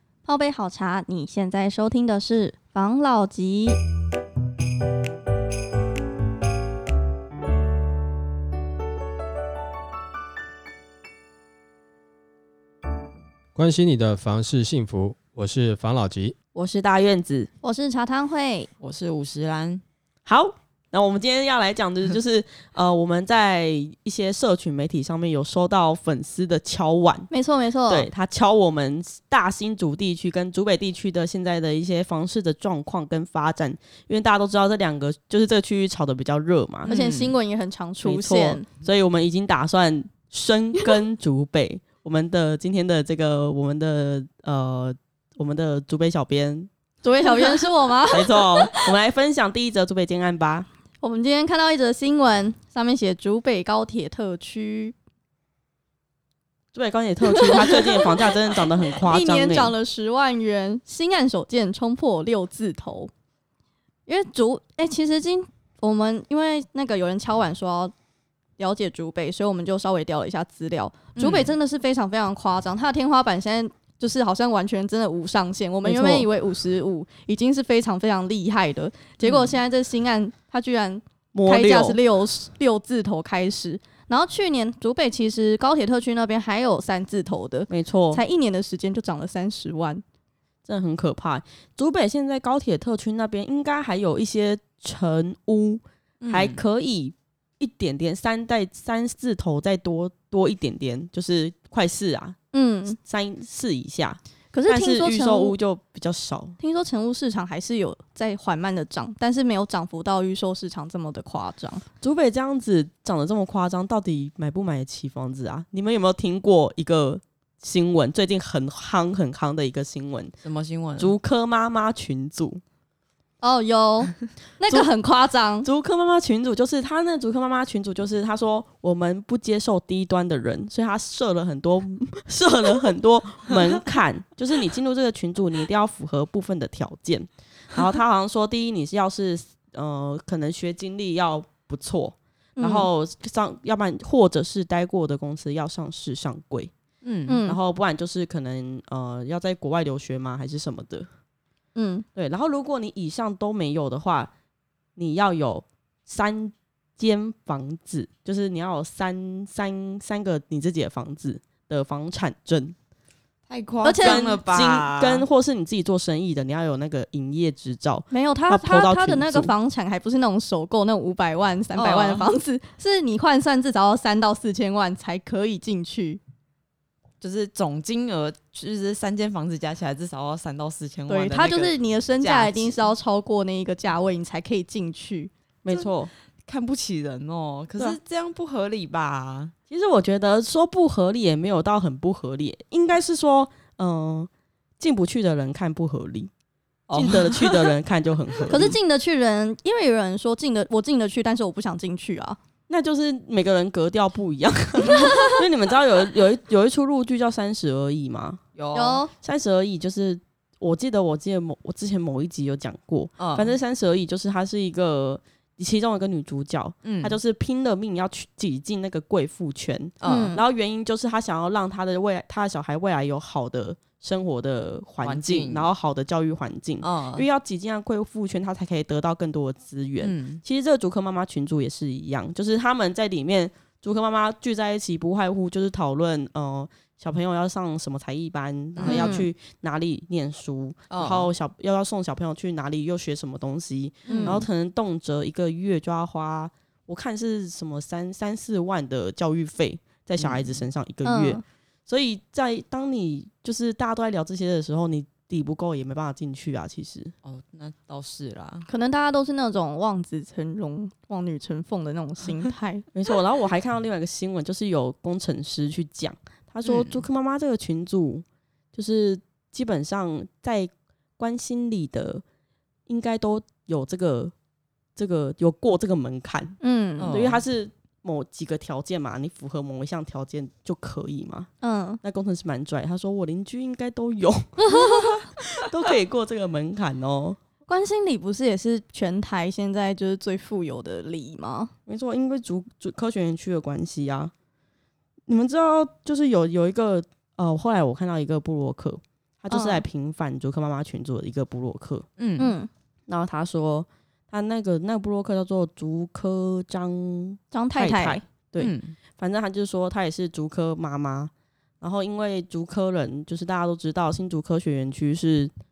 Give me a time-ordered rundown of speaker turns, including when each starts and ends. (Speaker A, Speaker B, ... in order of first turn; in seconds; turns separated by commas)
Speaker A: 0.3-3.8, Speaker B: 13.6-16.3, Speaker C: 16.6-17.5, Speaker A: 17.6-18.7, Speaker D: 18.8-19.8, Speaker C: 20.3-27.3, Speaker A: 27.3-28.1, Speaker C: 27.9-36.9, Speaker D: 36.9-37.4, Speaker A: 36.9-38.7, Speaker C: 38.0-46.7, Speaker A: 47.0-48.9, Speaker C: 48.0-50.7, Speaker A: 51.0-54.9, Speaker C: 56.7-59.7, Speaker A: 57.3-58.0, Speaker A: 58.9-63.1, Speaker A: 64.1-67.9, Speaker A: 68.6-90.0, Speaker D: 71.2-71.5, Speaker C: 75.8-76.3, Speaker D: 79.2-79.6, Speaker C: 81.3-82.0, Speaker C: 87.7-88.2, Speaker C: 90.7-102.4, Speaker D: 96.2-96.6, Speaker A: 102.5-103.0, Speaker C: 103.0-106.6, Speaker A: 104.5-105.5, Speaker A: 106.6-111.8, Speaker C: 112.0-120.3, Speaker D: 120.4-121.1, Speaker C: 121.0-122.6, Speaker A: 123.4-125.7, Speaker C: 125.6-146.7, Speaker A: 142.6-142.9, Speaker D: 147.0-147.4, Speaker A: 147.3-147.6, Speaker C: 147.4-151.1, Speaker A: 151.8-152.0, Speaker C: 152.2-154.3, Speaker C: 154.9-162.8, Speaker D: 163.5-165.2, Speaker A: 163.8-164.4, Speaker C: 164.0-169.5, Speaker A: 168.1-176.2, Speaker D: 171.8-172.3, Speaker D: 177.2-182.8, Speaker A: 181.1-185.3, Speaker C: 185.6-186.1, Speaker D: 186.5-189.5, Speaker C: 189.7-194.3, Speaker C: 194.8-196.3, Speaker D: 196.9-197.8, Speaker C: 196.9-198.8, Speaker A: 198.5-202.4, Speaker C: 202.7-208.4, Speaker A: 204.9-205.2, Speaker D: 208.6-209.1, Speaker A: 208.7-209.1, Speaker C: 209.2-257.1, Speaker D: 213.2-213.5, Speaker D: 216.8-217.2, Speaker D: 220.0-220.4, Speaker A: 220.0-220.4, Speaker D: 225.0-225.7, Speaker D: 226.8-227.2, Speaker D: 230.0-230.4, Speaker D: 238.8-239.2, Speaker A: 238.8-239.3, Speaker D: 240.9-241.3, Speaker D: 244.1-244.5, Speaker A: 244.1-244.4, Speaker D: 250.2-250.6, Speaker A: 251.0-251.4, Speaker D: 257.2-258.7, Speaker A: 258.7-262.9, Speaker C: 262.9-272.2, Speaker D: 266.6-267.1, Speaker C: 272.9-274.3, Speaker C: 274.9-276.6, Speaker A: 276.6-277.1, Speaker D: 277.0-277.4, Speaker C: 277.1-281.5, Speaker A: 281.6-282.0, Speaker C: 282.0-287.4, Speaker A: 284.6-285.2, Speaker A: 287.7-291.7, Speaker C: 291.9-294.3, Speaker C: 295.3-302.1, Speaker A: 299.5-299.8, Speaker D: 302.2-302.6, Speaker A: 302.4-302.7, Speaker C: 303.1-315.5, Speaker A: 307.5-308.2, Speaker D: 308.6-308.9